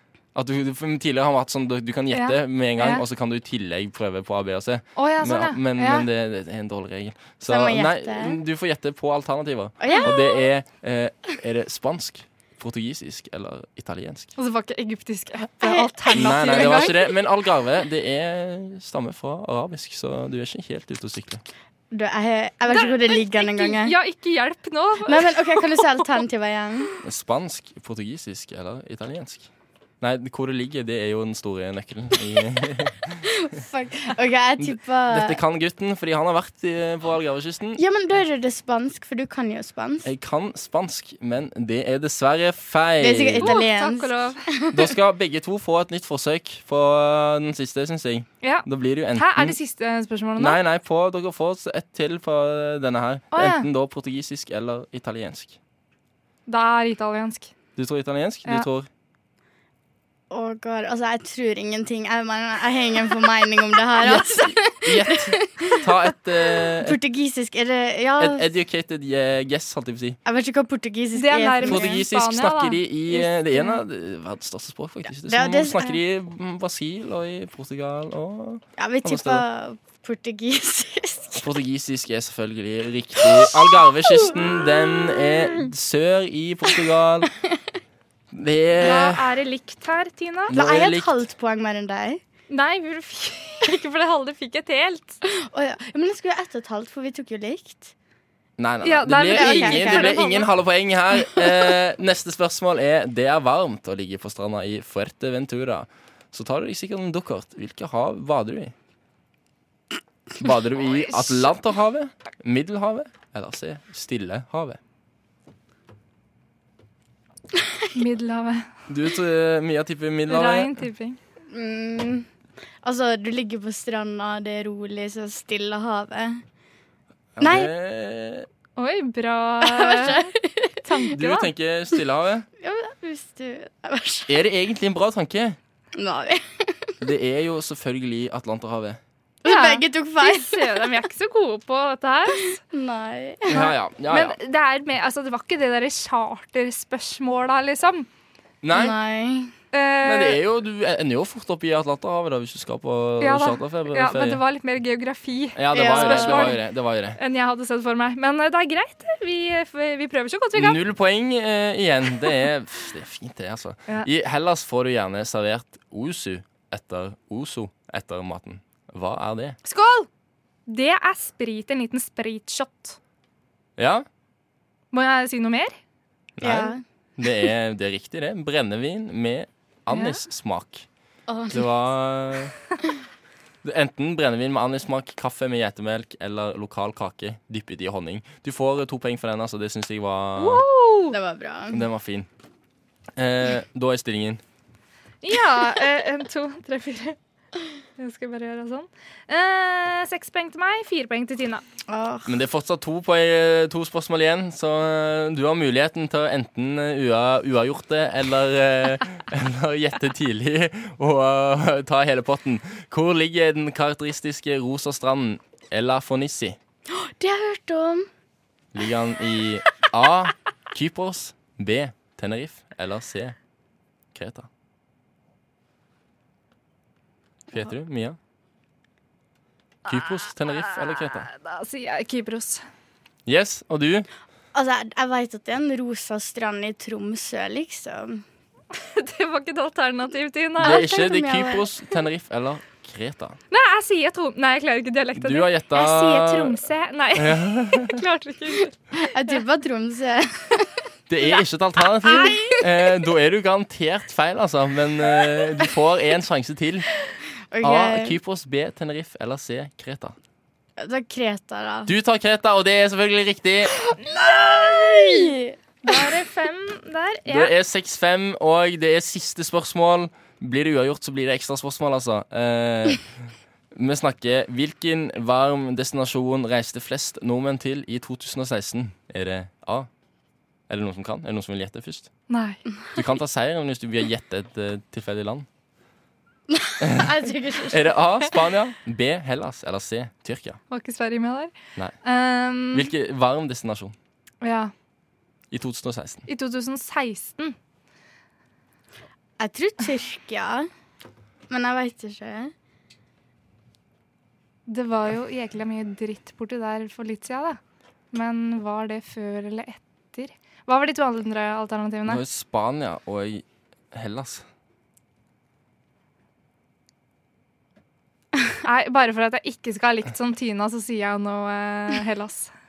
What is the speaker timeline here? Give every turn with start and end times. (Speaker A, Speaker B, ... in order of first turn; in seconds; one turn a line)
Speaker A: 0.3-14.3
Speaker B: 2.1-3.0
Speaker B: 5.0-6.1
Speaker C: 7.5-8.4
Speaker C: 9.8-10.4
Speaker B: 14.4-16.9
Speaker C: 15.6-17.1
Speaker A: 16.1-21.4
Speaker C: 21.9-23.9
Speaker B: 22.7-26.1
Speaker C: 25.0-26.9
Speaker A: 27.0-29.5
Speaker A: 30.0-33.2
Speaker C: 33.2-35.4
Speaker A: 34.6-37.8
Speaker C: 37.8-40.1
Speaker A: 40.0-43.5
Speaker C: 43.0-44.9
Speaker B: 43.4-44.5
Speaker A: 44.7-49.5
Speaker B: 48.4-50.6
Speaker A: 50.4-55.6
Speaker B: 53.3-53.7
Speaker B: 56.5-57.5
Speaker A: 57.8-58.9
Speaker C: 60.3-68.5
Speaker A: 64.0-67.0
Speaker A: 68.2-70.2
Speaker C: 70.2-72.0
Speaker B: 71.1-73.8
Speaker A: 71.6-79.4
Speaker C: 75.2-75.9
Speaker C: 78.8-81.5
Speaker A: 81.4-87.3
Speaker C: 83.2-85.6
Speaker A: 88.3-89.3
Speaker B: 88.8-90.5
Speaker A: 90.5-91.2
Speaker C: 90.5-92.2
Speaker B: 92.5-95.2
Speaker C: 95.2-97.9
Speaker A: 98.6-108.7
Speaker B: 98.8-100.5
Speaker C: 99.3-100.2
Speaker A: 110.4-114.8
Speaker C: 117.5-117.9
Speaker B: 117.9-118.7
Speaker A: 118.9-120.8
Speaker B: 120.3-121.2
Speaker C: 121.5-122.3
Speaker C: 122.8-126.4
Speaker A: 127.3-128.5
Speaker C: 127.4-127.7
Speaker B: 128.8-130.3
Speaker C: 129.6-130.8
Speaker B: 130.8-131.5
Speaker A: 131.2-132.4
Speaker C: 132.6-134.3
Speaker A: 134.3-135.6
Speaker C: 135.9-136.9
Speaker A: 137.0-139.0
Speaker C: 139.4-141.0
Speaker B: 139.4-142.6
Speaker C: 142.6-143.7
Speaker A: 143.5-144.3
Speaker B: 143.6-148.1
Speaker A: 148.6-148.9
Speaker C: 148.7-149.5
Speaker B: 149.7-150.4
Speaker A: 150.0-154.4
Speaker B: 153.2-156.6
Speaker A: 155.6-157.2
Speaker C: 155.7-156.6
Speaker B: 157.2-160.8
Speaker A: 160.6-169.6
Speaker B: 169.6-170.1
Speaker B: 170.7-173.0
Speaker A: 173.8-174.0
Speaker B: 174.9-175.8
Speaker A: 176.4-180.8
Speaker C: 176.4-176.8
Speaker B: 179.9-180.2
Speaker C: 181.3-181.7
Speaker A: 181.5-182.5
Speaker A: 183.6-190.6
Speaker B: 190.4-191.2
Speaker C: 191.1-191.8
Speaker A: 191.7-192.3
Speaker A: 193.2-194.4
Speaker B: 195.2-197.2
Speaker B: 198.0-201.6
Speaker C: 201.9-202.3
Speaker A: 202.2-216.6
Speaker C: 216.9-218.1
Speaker A: 218.7-223.3
Speaker A: 224.1-224.5
Speaker A: 227.5-228.2
Speaker A: 229.8-231.3
Speaker B: 230.3-232.6
Speaker A: 233.2-234.1
Speaker C: 234.5-238.2
Speaker B: 238.8-241.0
Speaker A: 240.6-243.4
Speaker C: 240.6-241.7
Speaker B: 243.5-248.8
Speaker A: 245.2-246.6
Speaker A: 247.1-248.0
Speaker C: 248.9-250.7
Speaker A: 251.1-256.9
Speaker B: 252.0-252.6
Speaker C: 252.1-252.6
Speaker C: 257.5-258.2
Speaker A: 257.6-260.1
Speaker C: 260.8-261.9
Speaker A: 261.9-263.9
Speaker C: 263.9-265.5
Speaker B: 265.8-267.5
Speaker A: 267.3-273.1
Speaker A: 273.7-279.9
Speaker A: 280.7-282.1
Speaker B: 282.3-282.6
Speaker A: 282.9-285.4
Speaker C: 286.5-287.9
Speaker A: 286.8-290.6
Speaker B: 290.7-292.9
Speaker A: 292.7-293.9
Speaker B: 294.4-294.7
Speaker A: 295.5-296.2
Speaker B: 296.3-297.6
Speaker C: 299.4-300.7
Speaker C: 301.5-302.5
Speaker B: 304.7-307.6
Speaker B: 308.1-312.2
Speaker A: 312.1-314.4
Speaker B: 318.5-322.5